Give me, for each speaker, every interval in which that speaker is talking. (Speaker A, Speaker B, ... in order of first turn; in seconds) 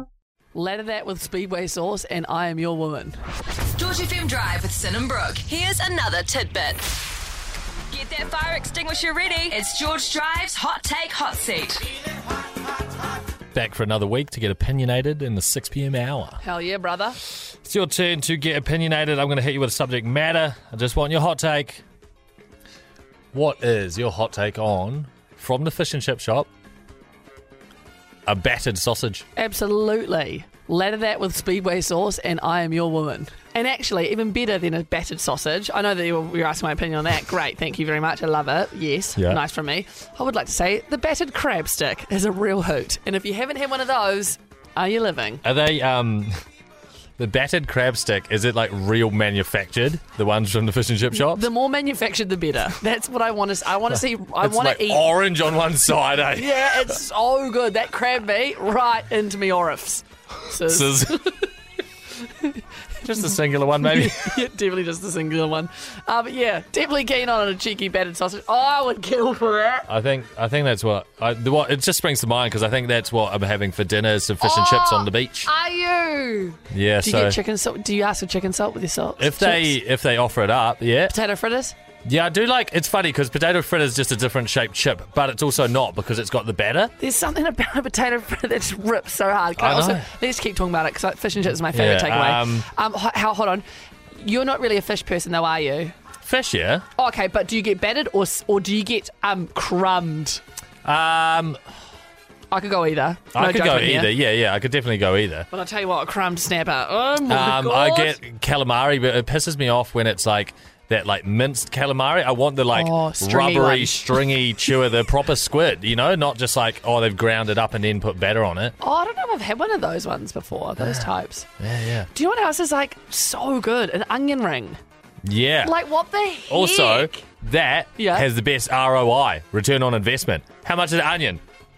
Speaker A: 0.5-3.1, 16.4-17.2, 29.4-45.4, 51.1-55.1, 56.3-61.5, 62.2-63.2, 63.8-69.9, 74.4-79.8, 81.1-81.8, 87.0-95.9, 97.0-100.4, 102.5-104.1, 105.5-108.2, 112.7-114.4, 118.8-121.5, 122.1-124.8, 125.6-127.3, 128.0-128.3
Speaker B: 3.8-6.8, 7.9-11.9
Speaker C: 13.5-16.4, 17.6-21.8, 23.3-26.5, 28.3-29.2, 45.4-46.3, 47.2-51.5, 54.4-57.0, 60.6-61.3, 63.0-64.4, 69.9-75.5, 76.7-77.4, 79.2-81.1, 82.1-86.9, 89.6-90.1, 91.7-92.7, 96.2-96.9, 100.8-101.6, 103.3-105.5, 107.2-118.7, 120.8-121.1, 121.6-122.1, 125.2-125.7, 126.5-131.4